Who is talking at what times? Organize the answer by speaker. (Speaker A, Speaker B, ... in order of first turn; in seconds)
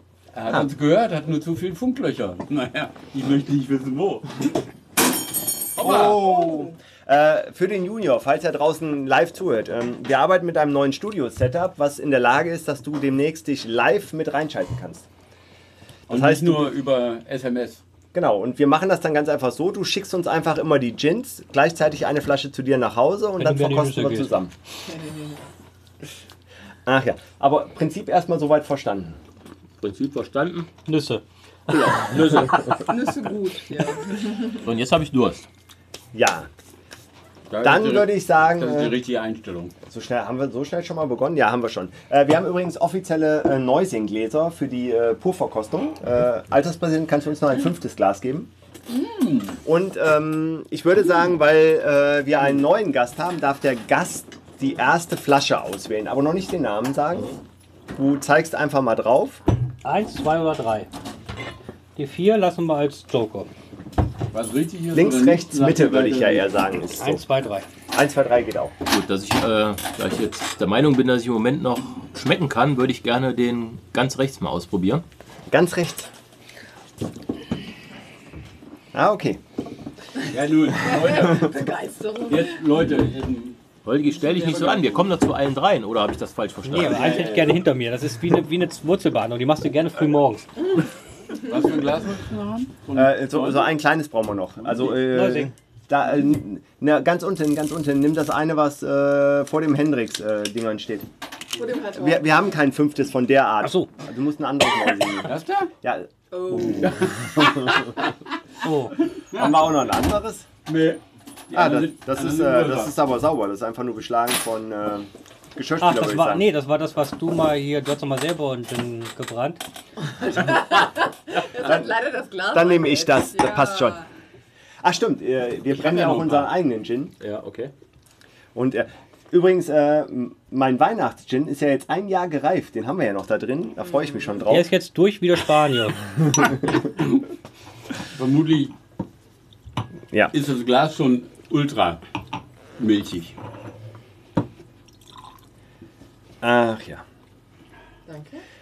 Speaker A: 0.3-4.5, 5.8-6.3, 16.1-17.8, 31.7-32.7, 37.5-39.7, 48.9-49.6, 64.3-66.5, 80.3-81.5, 82.3-83.6, 84.1-85.1, 87.0-87.6, 91.4-93.7, 94.7-95.0, 105.2-105.7, 106.8-107.7, 109.2-109.7, 110.7-113.0, 125.9-126.4, 138.1-138.8, 140.3-142.0, 142.8-143.3
Speaker B: 5.8-15.1, 16.1-16.7, 18.1-24.5, 26.9-29.2, 36.1-36.5, 37.6-39.0, 39.9-48.5, 49.6-57.4, 58.0-59.4, 64.9-67.2, 67.9-68.7, 75.5-76.1, 78.9-79.4, 86.9-87.3, 93.0-101.1, 101.9-107.9, 109.3-110.5, 111.5-116.5, 121.6-122.0, 122.5-124.0, 124.8-127.2, 128.6-134.7, 146.4-147.0
Speaker C: 6.1-6.8, 24.9-25.4, 32.9-34.7, 80.9-82.6, 101.5-102.4, 106.3-107.1, 120.2-124.1, 133.8-134.2, 148.1-148.4
Speaker D: 23.4-24.3, 30.9-32.1, 59.8-60.9, 62.0-63.5, 67.0-67.7, 86.6-90.5, 95.0-95.5, 103.6-103.9, 108.6-109.0, 115.8-119.6, 134.5-136.0
Speaker E: 29.8-30.7, 34.5-35.5, 68.9-75.0, 83.8-87.4, 127.2-127.7